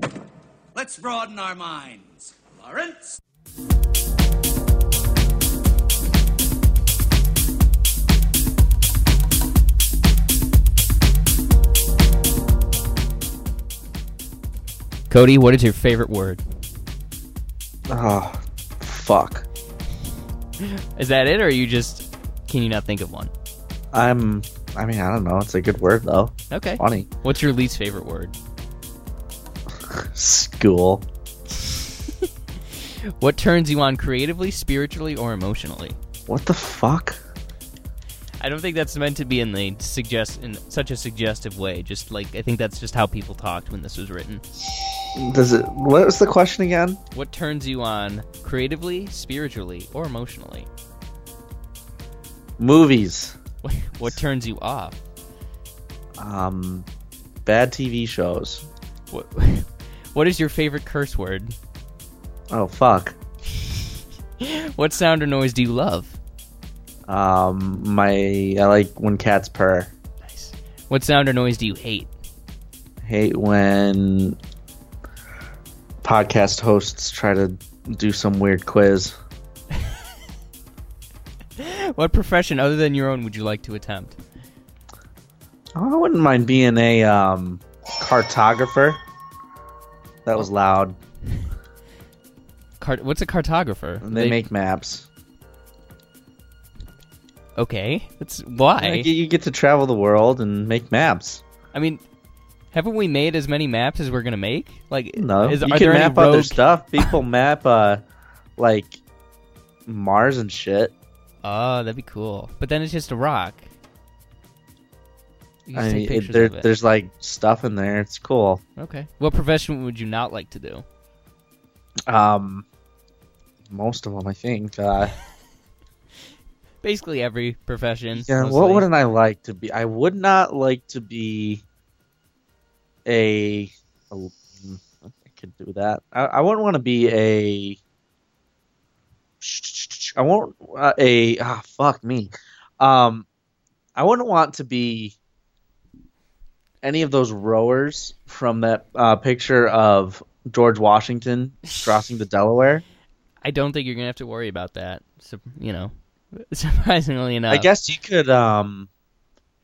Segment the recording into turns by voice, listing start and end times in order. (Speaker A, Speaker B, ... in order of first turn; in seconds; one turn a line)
Speaker A: 0.7-3.2
Speaker B: 15.1-16.4
Speaker C: 17.9-19.4
Speaker B: 20.6-23.3
Speaker C: 23.9-27.1
Speaker B: 26.5-28.4
Speaker C: 29.9-31.1
Speaker B: 32.8-36.0
Speaker C: 36.3-37.2
Speaker B: 38.4-44.5
Speaker C: 45.1-47.0
Speaker B: 47.1-50.7
Speaker C: 52.6-53.4
Speaker B: 53.6-55.0
Speaker C: 56.2-56.9
Speaker C: 57.5-58.7
Speaker B: 59.1-61.5
Speaker C: 62.5-63.2
Speaker B: 64.4-66.2
Speaker C: 67.1-69.9
Speaker B: 70.3-72.1
Speaker C: 73.0-74.4
Speaker C: 76.0-79.2
Speaker B: 81.6-84.2
Speaker C: 85.8-89.0
Speaker C: 90.3-91.0
Speaker B: 92.8-94.4
Speaker C: 94.0-95.1
Speaker B: 97.6-99.1
Speaker C: 98.8-101.4
Speaker B: 101.7-102.0
Speaker B: 102.7-107.1
Speaker C: 105.2-108.0
Speaker C: 108.6-109.0
Speaker C: 109.9-110.9
Speaker B: 111.4-113.7
Speaker B: 115.7-116.7
Speaker C: 115.7-118.6
Speaker B: 118.8-120.8
Speaker C: 122.1-122.7
Speaker C: 123.7-125.2
Speaker B: 126.8-128.9
Speaker C: 128.1-131.6
Speaker C: 133.1-137.8
Speaker C: 139.4-143.3
Speaker C: 144.0-145.2
Speaker C: 146.8-152.8
Speaker B: 153.4-157.7
Speaker C: 157.5-158.9